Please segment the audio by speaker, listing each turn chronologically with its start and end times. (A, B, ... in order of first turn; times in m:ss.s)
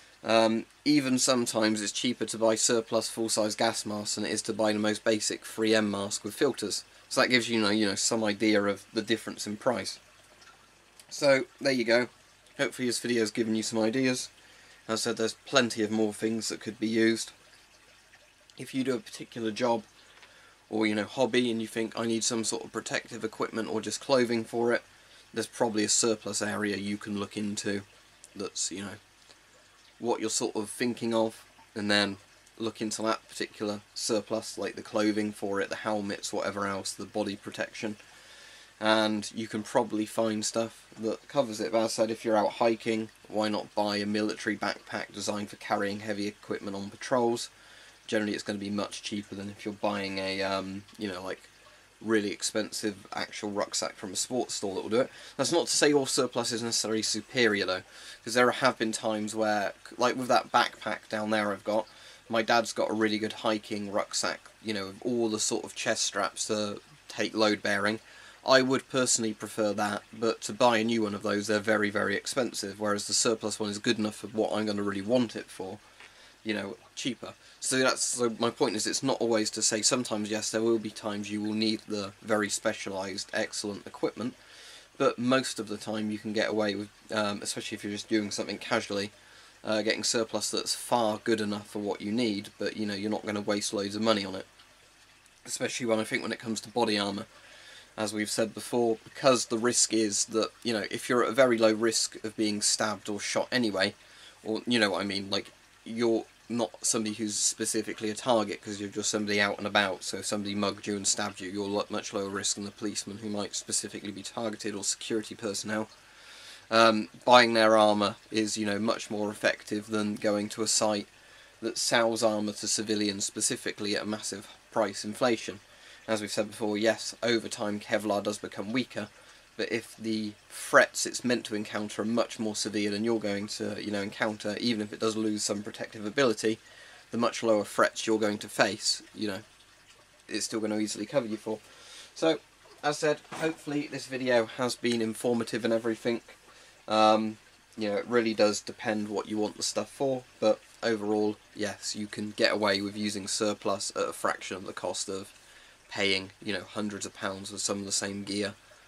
0:00.2-0:10.0 A
0:11.1-0:14.3 A
0:14.9-0:17.3 A
0:18.6-0:19.8 A
0:20.7-0:29.0 A
0:30.0-0:38.0 A
0:38.8-0:47.5 A
0:48.1-1:15.8 A
1:16.4-1:24.4 A
1:25.0-1:29.1 A
1:29.6-1:34.5 A
1:35.4-1:37.3 A
1:38.0-1:55.9 A
1:56.7-2:01.1 A
2:01.6-2:16.6 A
2:17.1-2:19.4 A
2:20.3-2:35.3 A
2:35.9-2:38.6 A